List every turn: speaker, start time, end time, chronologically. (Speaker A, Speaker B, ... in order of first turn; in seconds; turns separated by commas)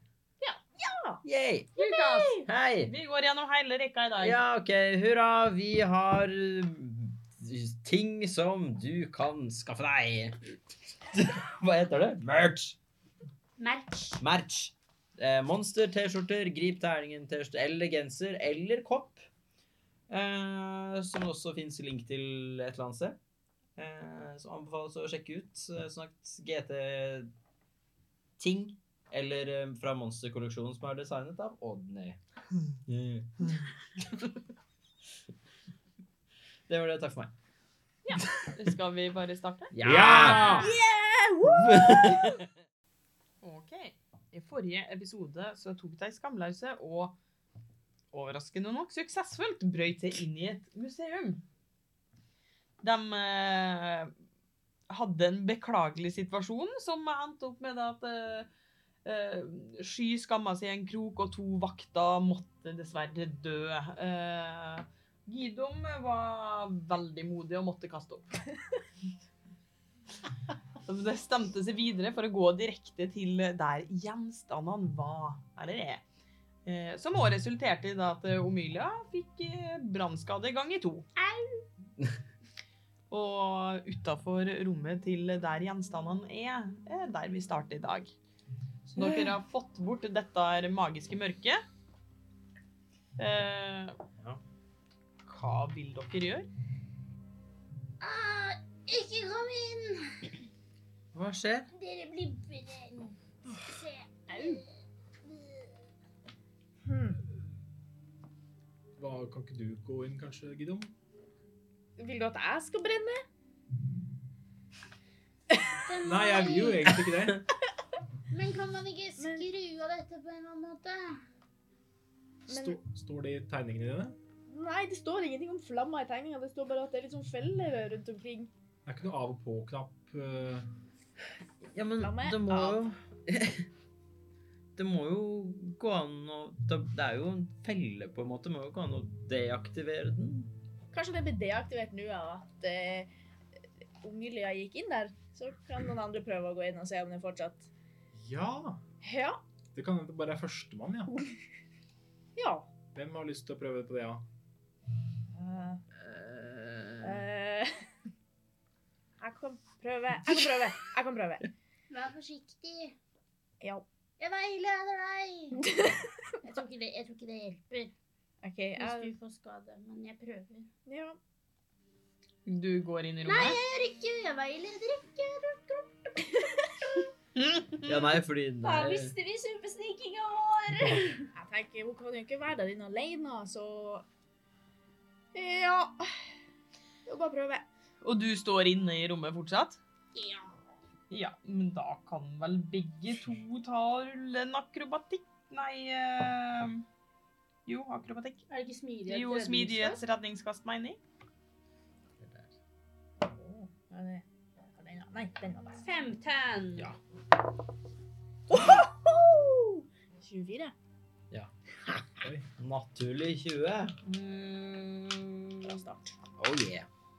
Speaker A: 0.4-1.2, Speaker B: 1.2-1.7, Speaker C: 1.8-2.5, Speaker D: 1.8-4.4, Speaker B: 2.4-2.9, Speaker B: 4.2-10.4, Speaker B: 11.0-12.8, Speaker C: 13.6-14.2, Speaker B: 14.2-19.3, Speaker B: 20.1-23.2, Speaker B: 23.8-27.3, Speaker B: 28.4-32.2, Speaker B: 32.9-33.5, Speaker B: 36.7-37.3, Speaker D: 38.0-39.8, Speaker B: 39.7-40.6, Speaker E: 39.8-40.7, Speaker C: 40.0-40.8, Speaker A: 40.5-42.3, Speaker B: 41.5-42.4, Speaker D: 43.4-47.1, Speaker D: 48.1-51.4, Speaker D: 52.8-54.1, Speaker D: 54.9-58.5, Speaker D: 59.0-68.3, Speaker D: 70.8-76.0, Speaker D: 76.7-81.1, Speaker C: 81.2-81.6, Speaker D: 83.1-88.1, Speaker B: 88.9-89.4, Speaker D: 88.9-91.6, Speaker D: 93.2-94.0, Speaker B: 94.2-94.4, Speaker D: 95.2-96.5, Speaker C: 98.0-100.3, Speaker B: 101.1-101.7, Speaker C: 101.7-104.7, Speaker A: 104.3-104.6, Speaker A: 106.8-107.2, Speaker E: 109.0-110.9, Speaker A: 112.0-113.2, Speaker C: 115.8-117.0, Speaker E: 116.0-117.4, Speaker C: 118.3-121.2, Speaker A: 119.2-119.5, Speaker E: 122.5-124.2, Speaker A: 122.5-122.8, Speaker A: 124.5-128.5, Speaker E: 128.8-130.7, Speaker B: 131.6-133.7, Speaker A: 132.0-132.8, Speaker B: 134.7-140.5, Speaker A: 140.9-143.1, Speaker A: 144.0-147.7, Speaker E: 148.2-148.8, Speaker A: 149.0-149.4, Speaker E: 149.7-151.1, Speaker A: 152.3-152.7, Speaker E: 152.9-154.2, Speaker A: 155.3-155.8, Speaker B: 156.0-157.2, Speaker A: 157.0-157.7, Speaker A: 159.2-161.5, Speaker C: 161.9-162.9, Speaker C: 164.2-165.6, Speaker A: 165.6-166.1, Speaker C: 166.4-167.9, Speaker A: 168.4-169.1, Speaker C: 168.8-170.7, Speaker A: 170.8-171.2, Speaker D: 172.4-173.6, Speaker C: 173.2-175.9, Speaker D: 177.3-178.0, Speaker B: 177.8-179.1, Speaker C: 178.6-181.3, Speaker A: 181.3-184.0, Speaker A: 185.3-186.1, Speaker A: 187.1-187.6, Speaker D: 188.0-189.8, Speaker C: 190.1-190.5, Speaker D: 191.1-196.8, Speaker D: 197.7-198.4, Speaker C: 198.5-200.0, Speaker D: 199.1-201.0, Speaker B: 202.2-202.5, Speaker A: 203.2-204.2, Speaker A: 204.8-205.8, Speaker C: 205.8-206.9, Speaker A: 208.5-210.7, Speaker B: 211.3-212.0, Speaker E: 212.2-212.5, Speaker B: 212.6-213.9, Speaker D: 214.0-215.8, Speaker A: 215.6-216.2, Speaker B: 216.4-216.9